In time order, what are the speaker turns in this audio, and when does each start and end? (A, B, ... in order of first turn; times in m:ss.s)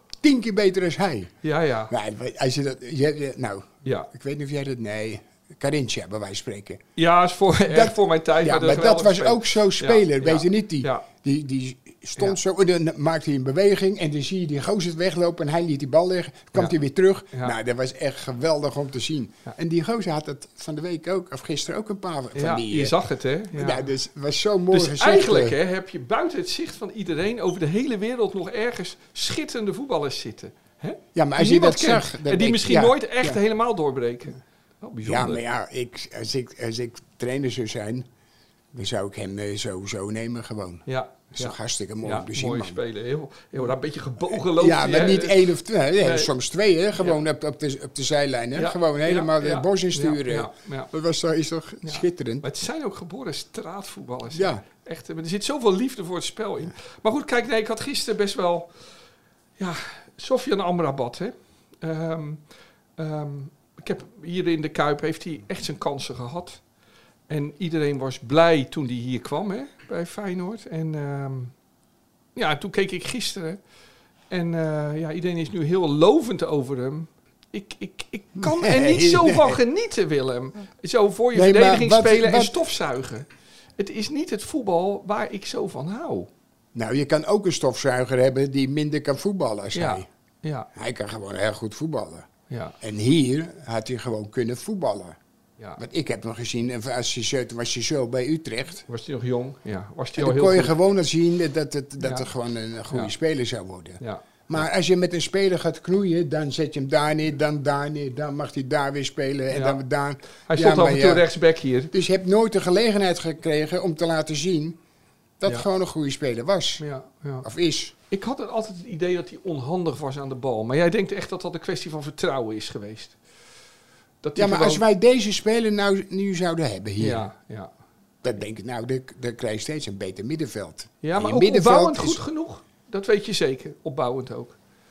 0:00.2-0:01.3 A
0:01.4-0:01.9 B
0:01.9-0:06.8 A
0:03.8-0:04.1 B
0:07.0-0:11.1 B
0:07.6-0:22.9 A
0:22.3-0:23.8 B
0:23.5-0:25.6 A
0:24.7-0:35.4 B
0:31.1-0:33.4 A
0:35.0-0:38.1 A
0:38.7-0:42.8 A
0:40.9-0:45.5 B
0:44.2-0:52.5 A
0:46.0-0:46.3 B
0:48.5-0:50.9 B
0:51.8-0:58.7 B
0:54.3-0:54.6 A
0:59.6-1:02.4 B
1:03.0-1:06.6 B
1:07.3-1:11.5 B
1:12.3-1:13.6 B
1:14.3-1:26.3 B
1:18.4-1:19.6 A
1:21.3-1:22.7 A
1:26.7-1:30.1 A
1:29.7-1:30.7 B
1:30.7-1:32.3 A
1:32.5-1:32.8 B
1:32.8-1:35.2 A
1:35.8-1:38.8 A
1:38.9-1:40.8 B
1:40.2-1:51.3 A
1:42.0-1:42.3 B
1:49.5-1:49.8 B
1:50.5-1:51.9 B
1:51.9-1:54.8 A
1:55.4-1:56.8 A
1:56.8-1:57.4 B
1:57.4-1:57.9 A
1:58.1-2:03.2 B
2:04.2-2:04.8 B
2:04.3-2:07.3 A
2:07.0-2:07.7 B
2:08.2-2:12.2 A
2:11.0-2:14.6 B